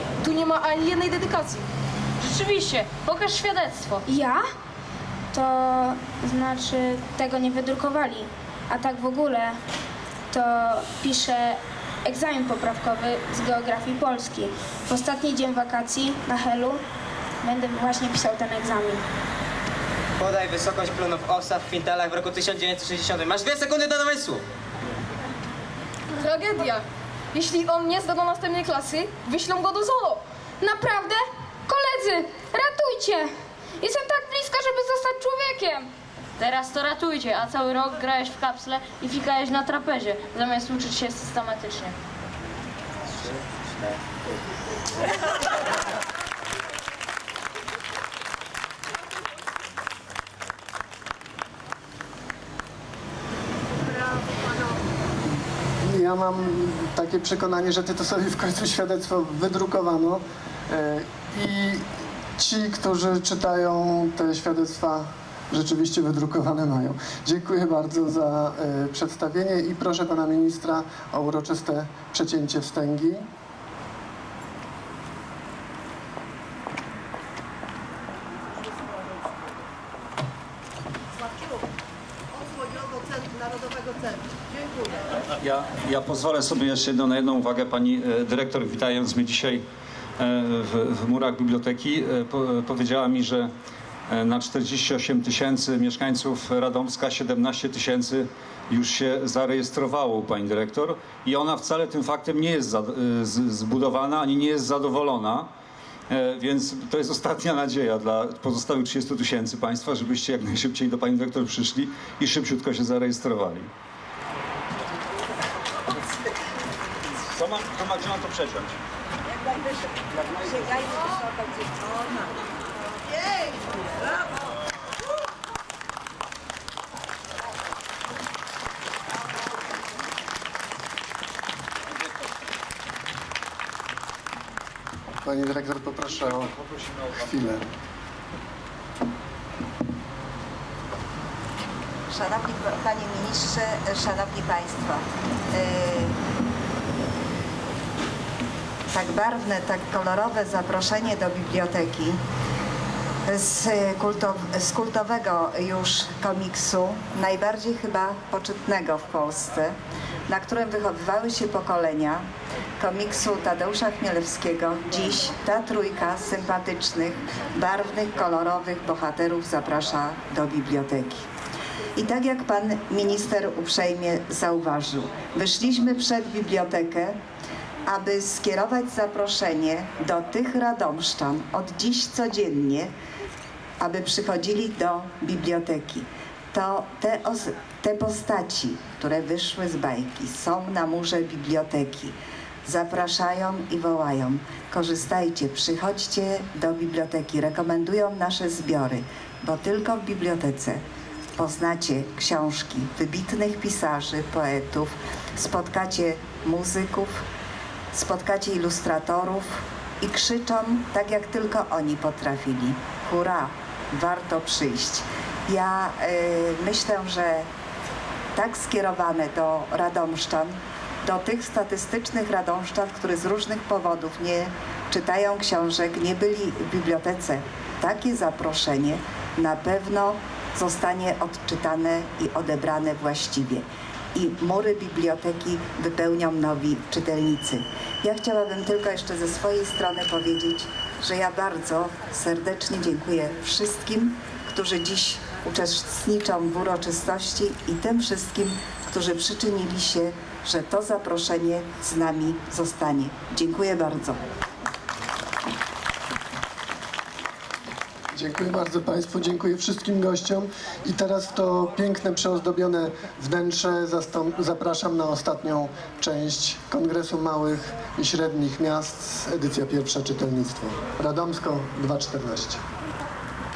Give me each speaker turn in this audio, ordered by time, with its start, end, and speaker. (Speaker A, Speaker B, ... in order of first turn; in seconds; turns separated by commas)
Speaker A: 0.2-1.7, Speaker B: 2.2-4.0, Speaker C: 4.0-4.4, Speaker C: 5.3-9.6, Speaker C: 10.3-16.8, Speaker C: 17.4-19.0, Speaker D: 20.2-24.4, Speaker A: 26.2-30.2, Speaker C: 30.6-35.9, Speaker B: 36.4-41.9, Speaker D: 43.1-43.9, Speaker E: 55.8-61.9, Speaker E: 62.4-73.2, Speaker F: 85.4-89.6, Speaker F: 90.2-93.5, Speaker F: 94.1-105.5, Speaker F: 106.1-113.7, Speaker F: 117.3-118.8, Speaker E: 135.2-136.6, Speaker E: 137.1-137.7, Speaker G: 142.1-146.2, Speaker G: 148.9-152.2, Speaker G: 153.3-159.7, Speaker G: 160.3-162.2, Speaker G: 162.8-171.3, Speaker G: 172.0-177.2, Speaker G: 177.9-182.9, Speaker G: 183.8-192.1, Speaker G: 192.7-200.8, Speaker G: 201.3-207.2, Speaker G: 207.9-217.5, Speaker G: 218.3-254.2, Speaker E: 258.1-272.6